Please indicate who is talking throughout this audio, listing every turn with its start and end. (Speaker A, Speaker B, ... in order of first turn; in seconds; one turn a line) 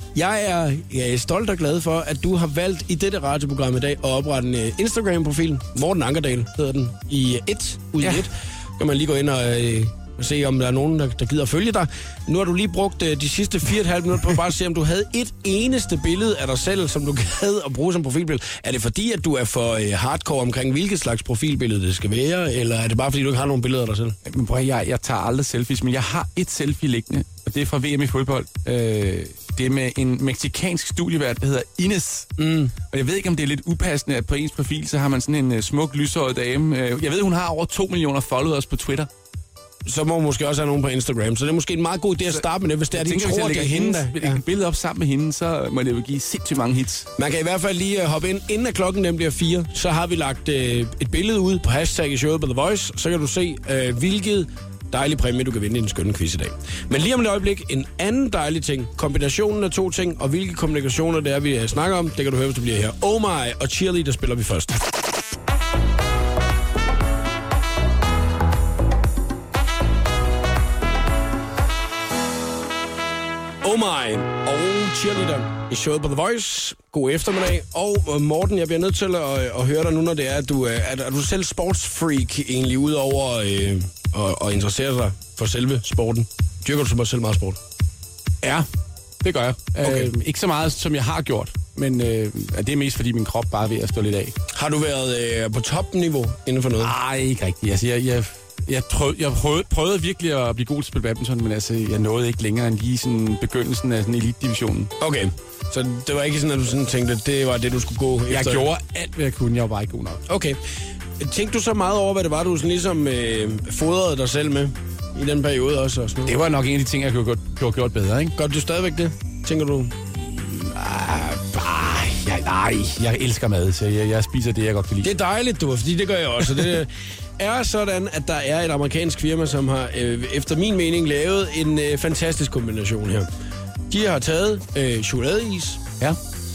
Speaker A: 0.1-24.1
Speaker B: 24.2-32.3
Speaker A: 32.4-32.7
Speaker B: 32.9-39.1
Speaker A: 39.8-44.4
Speaker B: 42.3-47.1
Speaker A: 47.2-64.8
Speaker A: 73.6-87.6
Speaker B: 89.2-94.3
Speaker A: 89.8-90.1
Speaker A: 94.5-96.9
Speaker B: 96.8-104.9
Speaker A: 105.0-108.7
Speaker B: 108.3-110.2
Speaker A: 110.3-110.6
Speaker A: 111.2-116.4
Speaker B: 116.2-118.3
Speaker A: 118.4-119.9
Speaker B: 120.3-125.1
Speaker A: 125.0-133.3
Speaker A: 133.9-135.8